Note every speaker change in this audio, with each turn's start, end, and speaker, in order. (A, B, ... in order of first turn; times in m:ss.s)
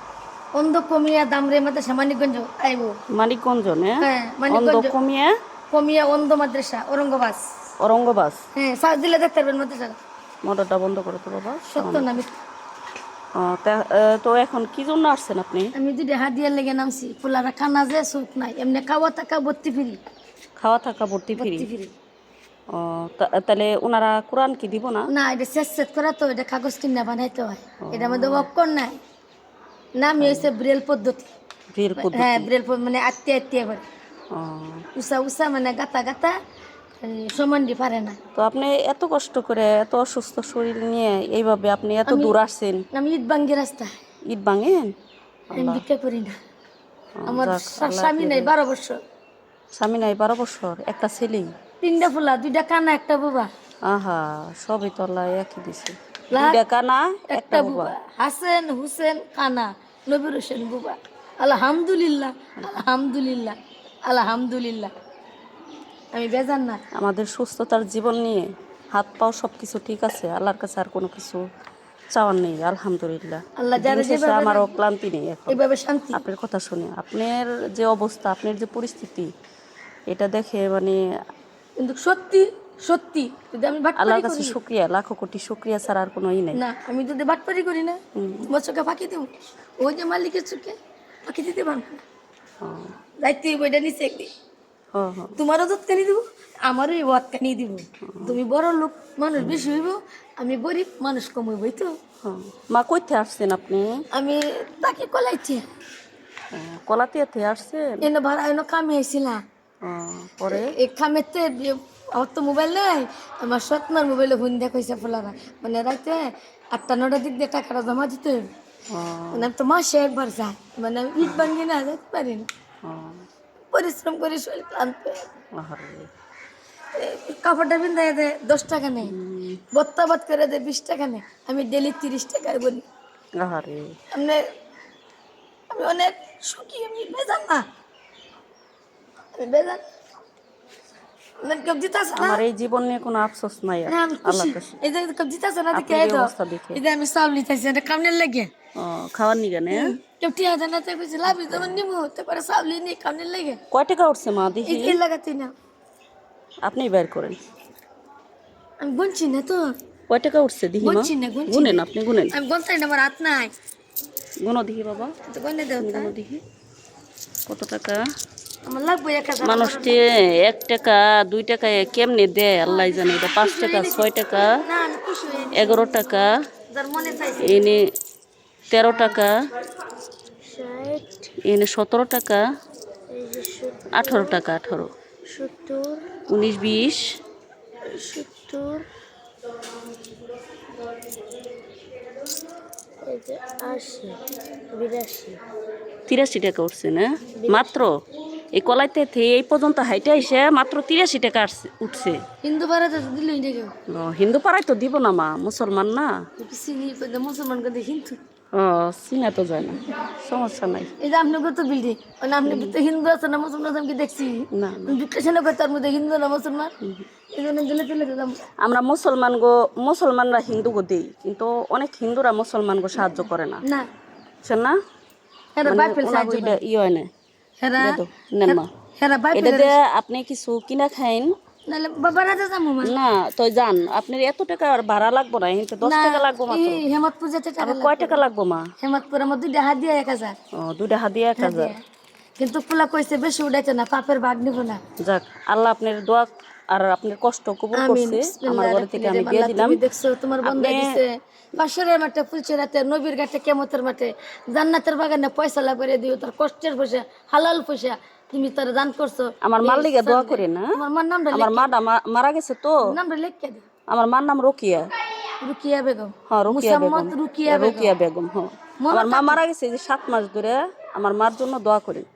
0:00.5-0:03.0 A
0:03.1-0:05.3 B
0:04.0-0:04.9 A
0:05.7-0:07.4 A
0:07.8-0:08.4 B
0:08.6-0:10.0 A
0:10.4-0:12.2 B
0:11.7-0:12.3 A
0:13.4-0:15.7 B
0:15.8-0:20.0 A
0:20.6-0:21.7 B
0:21.4-0:21.9 A
0:22.7-0:25.1 B
0:25.1-0:28.9 A
0:27.8-0:28.5 B
0:30.0-0:31.3 A
0:30.2-0:30.5 B
0:31.7-0:32.5 B
0:32.0-0:33.8 A
0:34.3-0:34.8 B
0:35.0-0:36.4 A
0:37.0-0:38.2 A
0:38.4-0:42.8 B
0:42.1-0:42.3 A
0:42.9-0:43.9 A
0:44.3-0:44.9 B
0:45.5-0:45.8 B
0:45.6-0:46.4 A
0:47.2-0:48.5 B
0:47.3-0:49.0 A
0:49.8-0:51.5 B
0:51.8-0:53.5 A
0:53.9-0:57.9 B
0:56.3-0:56.6 A
0:57.3-1:03.6 A
1:02.6-1:02.8 B
1:04.1-1:04.9 A
1:06.1-1:06.8 A
1:07.0-1:11.4 B
1:12.1-1:15.6 B
1:13.6-1:14.7 A
1:15.5-1:16.2 A
1:16.1-1:19.3 B
1:20.1-1:21.0 B
1:21.8-1:24.6 A
1:24.0-1:26.6 B
1:26.6-1:32.0 A
1:28.2-1:28.5 B
1:32.6-1:32.9 B
1:33.2-1:34.3 A
1:34.9-1:35.4 B
1:35.4-1:41.9 A
1:38.1-1:38.4 B
1:42.2-1:44.0 B
1:44.1-1:45.6 A
1:46.5-1:48.1 B
1:48.0-1:49.4 A
1:49.8-1:50.7 B
1:50.5-1:58.5 A
1:58.9-1:59.5 B
1:59.3-2:02.5 A
2:01.2-2:01.5 B
2:02.8-2:03.2 B
2:03.7-2:05.3 A
2:05.6-2:06.1 B
2:07.0-2:09.1 A
2:09.0-2:09.6 B
2:09.7-2:12.8 A
2:13.4-2:14.0 B
2:14.1-2:14.4 A
2:15.7-2:17.6 A
2:19.4-2:19.8 A
2:21.4-2:22.4 A
2:22.2-2:24.8 B
2:23.9-2:28.5 A
2:25.7-2:26.8 B
2:28.8-2:30.0 B
2:29.7-2:33.6 A
2:31.3-2:31.8 B
2:33.7-2:35.0 B
2:34.6-2:35.5 A
2:36.6-2:37.4 B
2:38.8-2:39.7 A
2:40.1-2:42.4 B
2:40.8-2:43.5 A
2:44.4-2:45.1 B
2:45.3-2:46.1 A
2:45.8-2:46.4 B
2:47.5-2:48.0 B
2:48.6-2:50.0 A
2:49.4-2:54.6 B
2:52.6-2:57.7 A
2:55.5-2:56.4 B
2:57.4-2:57.9 B
2:58.7-2:59.4 B
2:58.7-2:59.2 A
3:00.4-3:01.3 A
3:01.4-3:02.4 B
3:03.1-3:04.4 A
3:03.9-3:04.9 B
3:05.3-3:06.0 A
3:06.3-3:07.2 B
3:07.9-3:08.9 A
3:13.0-3:14.2 A
3:14.7-3:15.4 A
3:16.1-3:18.0 B
3:17.4-3:17.8 A
3:18.5-3:22.2 B
3:22.4-3:23.7 A
3:23.9-3:26.1 B
3:26.4-3:28.2 A
3:28.5-3:30.9 B
3:31.0-3:36.7 A
3:32.5-3:32.8 B
3:34.5-3:35.0 B
3:36.8-3:37.1 B
3:37.3-3:38.4 A
3:38.6-3:43.6 B
3:43.0-3:43.9 A
3:44.4-3:44.8 B
3:45.6-3:46.6 A
3:45.6-3:47.1 B
3:47.6-3:49.8 A
3:47.8-3:48.7 B
3:49.3-3:51.3 B
3:51.7-3:53.0 A
3:52.8-3:56.8 B
3:55.8-3:58.2 A
3:57.6-3:58.7 B
3:58.8-4:00.4 A
4:00.5-4:01.7 B
4:01.4-4:01.8 A
4:02.4-4:04.8 A
4:05.0-4:09.8 B
4:07.7-4:21.7 A
4:10.4-4:10.9 B
4:19.4-4:20.7 B
4:21.3-4:22.9 B
4:22.8-4:23.6 A
4:23.9-4:24.9 B
4:25.4-4:27.9 A
4:26.3-4:32.1 B
4:28.8-4:29.4 A